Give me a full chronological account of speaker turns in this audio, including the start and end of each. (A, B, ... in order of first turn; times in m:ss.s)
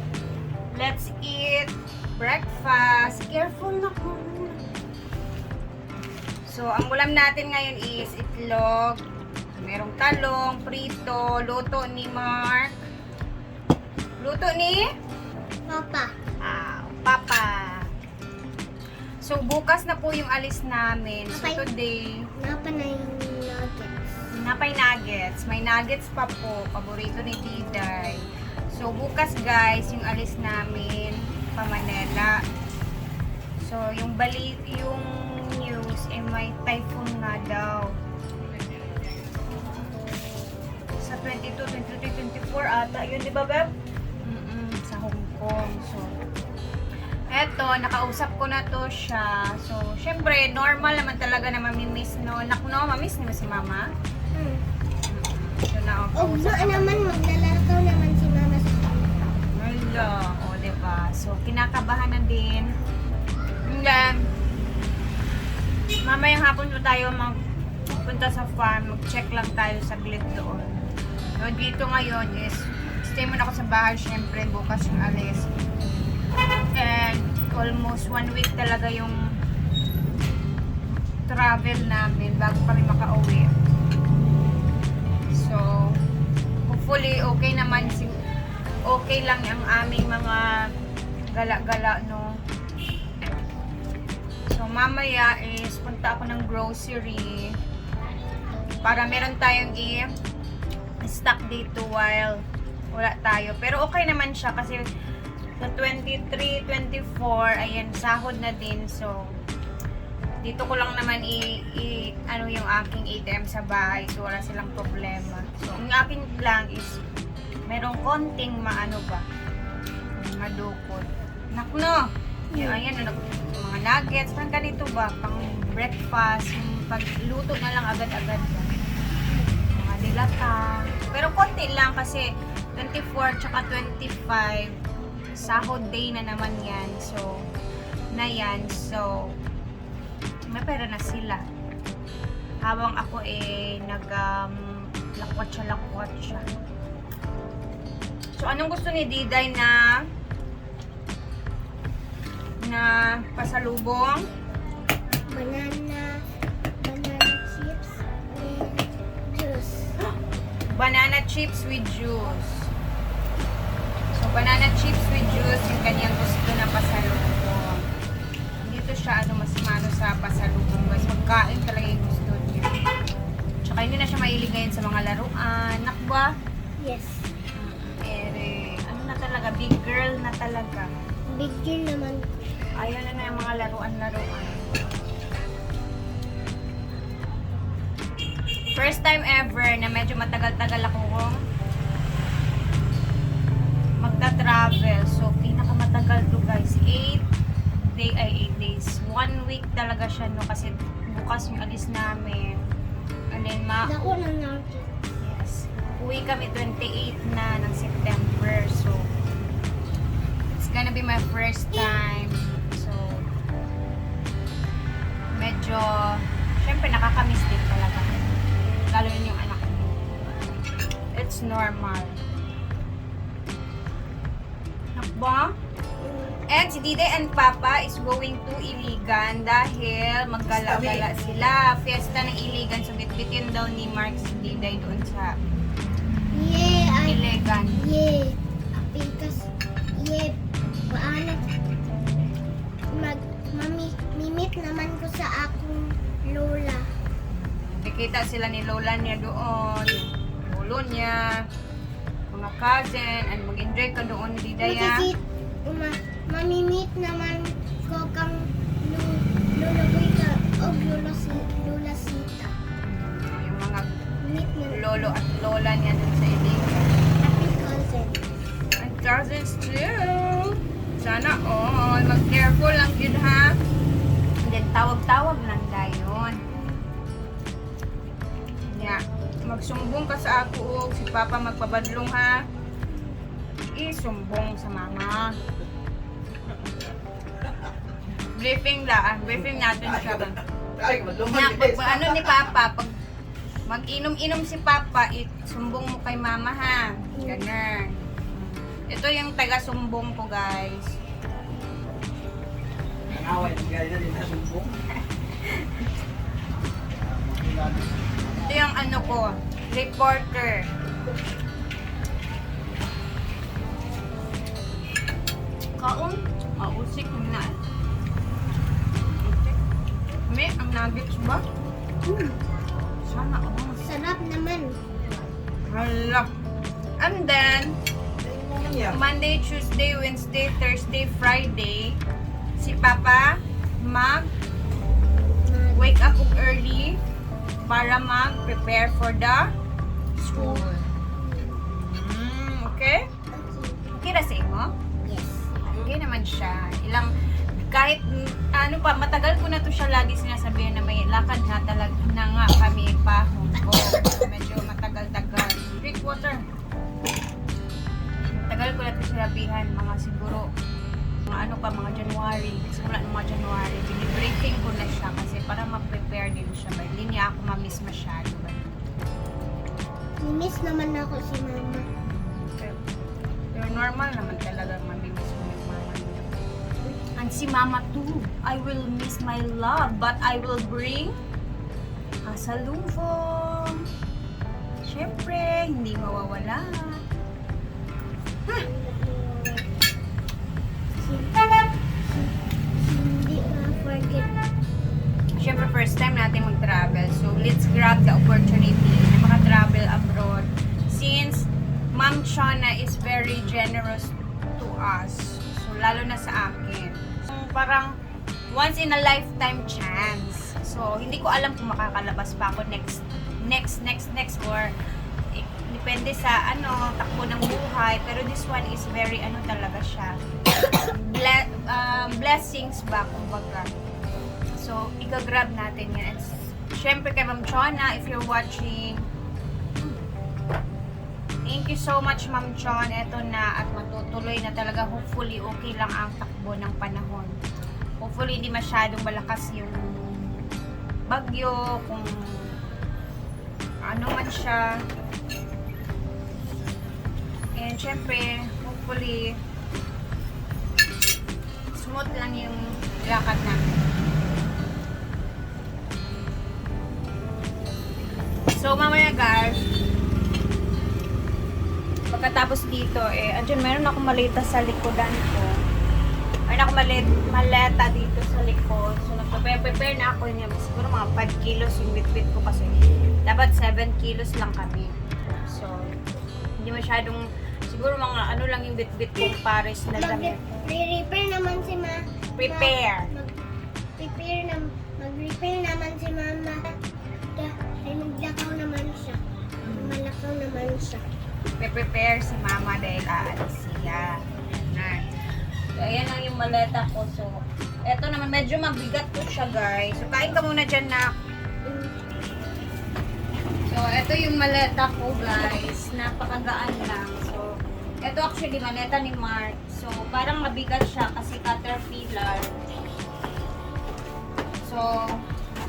0:00.7-0:04.6 A
0:06.5-0:09.0 A
0:09.6-0:12.8 A
0:14.2-0:14.8 A
0:15.7-0:16.1 B
0:16.4-0:17.9 A
0:19.2-0:22.0 A
0:21.3-0:21.6 B
0:22.4-0:24.2 B
0:24.3-0:32.4 A
0:33.6-0:37.9 A
0:41.0-0:43.7 A
0:44.3-0:46.1 A
0:47.3-0:53.9 A
0:54.3-0:54.6 B
0:55.1-0:57.0 A
0:56.2-0:59.1 B
0:59.4-1:02.7 A
1:03.7-1:04.2 A
1:06.0-1:07.4 A
1:07.9-1:10.7 A
1:11.4-1:15.5 A
1:16.8-1:19.2 A
1:21.3-1:23.5 A
1:25.3-1:26.0 A
1:26.7-1:28.1 A
1:28.9-1:30.4 A
1:31.3-1:32.3 A
1:34.5-1:37.5 A
1:38.8-1:40.1 A
1:41.0-1:42.4 A
1:42.9-1:44.8 A
1:45.6-1:49.2 A
1:50.4-1:57.0 A
1:57.7-1:59.2 A
2:00.2-2:02.0 A
2:02.5-2:02.8 B
2:02.6-2:08.7 A
2:09.3-2:09.6 B
2:09.7-2:14.7 A
2:15.4-2:17.3 A
2:18.1-2:19.3 A
2:20.5-2:21.4 A
2:22.6-2:26.5 A
2:28.4-2:29.8 A
2:32.6-2:34.2 A
2:35.3-2:36.1 B
2:36.8-2:40.0 B
2:40.7-2:42.7 A
2:44.1-2:47.8 A
2:48.7-2:52.7 A
2:53.6-2:56.3 A
2:56.8-2:57.3 B
2:57.6-3:00.9 A
3:01.4-3:02.4 B
3:02.8-3:04.8 A
3:08.8-3:11.4 A
3:14.0-3:17.2 A
3:17.8-3:22.6 A
3:23.3-3:24.0 A
3:23.8-3:25.0 B
3:25.2-3:29.1 A
3:30.6-3:33.3 A
3:35.4-3:35.9 A
3:36.6-3:38.2 A
3:38.9-3:40.1 A
3:41.1-3:42.2 A
3:45.0-3:45.5 A
3:46.0-3:46.4 B
3:46.5-3:55.3 A
3:56.3-3:59.5 B
3:57.0-3:57.8 A
4:00.0-4:00.4 B
4:00.9-4:01.4 B
4:03.0-4:06.8 B
4:07.7-4:11.2 A
4:12.3-4:15.0 A
4:14.6-4:22.5 B
4:22.8-4:23.9 A
4:24.2-4:25.1 B
4:24.7-4:26.9 A
4:27.2-4:28.2 B
4:28.8-4:33.6 A
4:34.4-4:36.4 A
4:36.5-4:36.9 B
4:38.7-4:42.4 A
4:42.9-4:43.2 B
4:43.8-4:45.3 A
4:48.2-4:50.4 A
4:49.9-4:50.2 C
4:50.8-4:52.4 C
4:51.2-4:52.9 A
4:53.7-5:01.0 A
4:57.2-4:57.5 B
5:03.1-5:04.7 C
5:05.3-5:05.8 A
5:07.1-5:08.3 C
5:08.4-5:10.7 A
5:15.8-5:17.6 A
5:19.1-5:19.6 A
5:20.3-5:21.4 A
5:22.1-5:22.4 A
5:23.0-5:23.8 A
5:23.8-5:24.8 B
5:25.7-5:26.3 A
5:27.0-5:27.8 A
5:28.2-5:28.9 C
5:28.8-5:32.0 A
5:32.6-5:34.3 A
5:35.4-5:36.0 B
5:35.8-5:37.0 A
5:37.7-5:39.5 A
5:40.2-5:40.9 A
5:40.4-5:40.6 B
5:41.2-5:41.6 B
5:41.7-5:43.0 A
5:43.3-5:43.9 B
5:43.9-5:44.7 A
5:45.0-5:45.5 B
5:45.6-5:56.4 A
5:58.4-6:00.5 A
6:01.3-6:08.6 A
6:10.2-6:11.9 B
6:12.0-6:12.8 A
6:13.5-6:16.3 A
6:17.2-6:21.2 A
6:22.3-6:23.9 A
6:24.8-6:27.0 A
6:28.5-6:29.7 B
6:31.0-6:31.5 B
6:32.1-6:34.3 B
6:35.4-6:47.9 A
6:48.5-6:54.7 A
6:55.3-7:00.1 A
7:00.9-7:03.7 A
7:04.6-7:09.0 A
7:11.5-7:17.4 A
7:18.0-7:20.3 A
7:21.1-7:22.5 A
7:23.9-7:24.6 A
7:27.6-7:29.3 A
7:31.7-7:33.8 A
7:38.6-7:39.6 A
7:42.1-7:45.5 A
7:46.5-7:56.0 A
7:56.6-8:00.4 A
8:00.0-8:03.4 B
8:02.4-8:03.1 A
8:04.0-8:06.6 B
8:07.4-8:11.0 B
8:09.7-8:10.0 A
8:11.6-8:15.0 A
8:15.8-8:17.4 A
8:17.9-8:21.1 A
8:21.6-8:21.9 B
8:23.7-8:27.5 A
8:28.0-8:32.5 A
8:34.6-8:34.9 A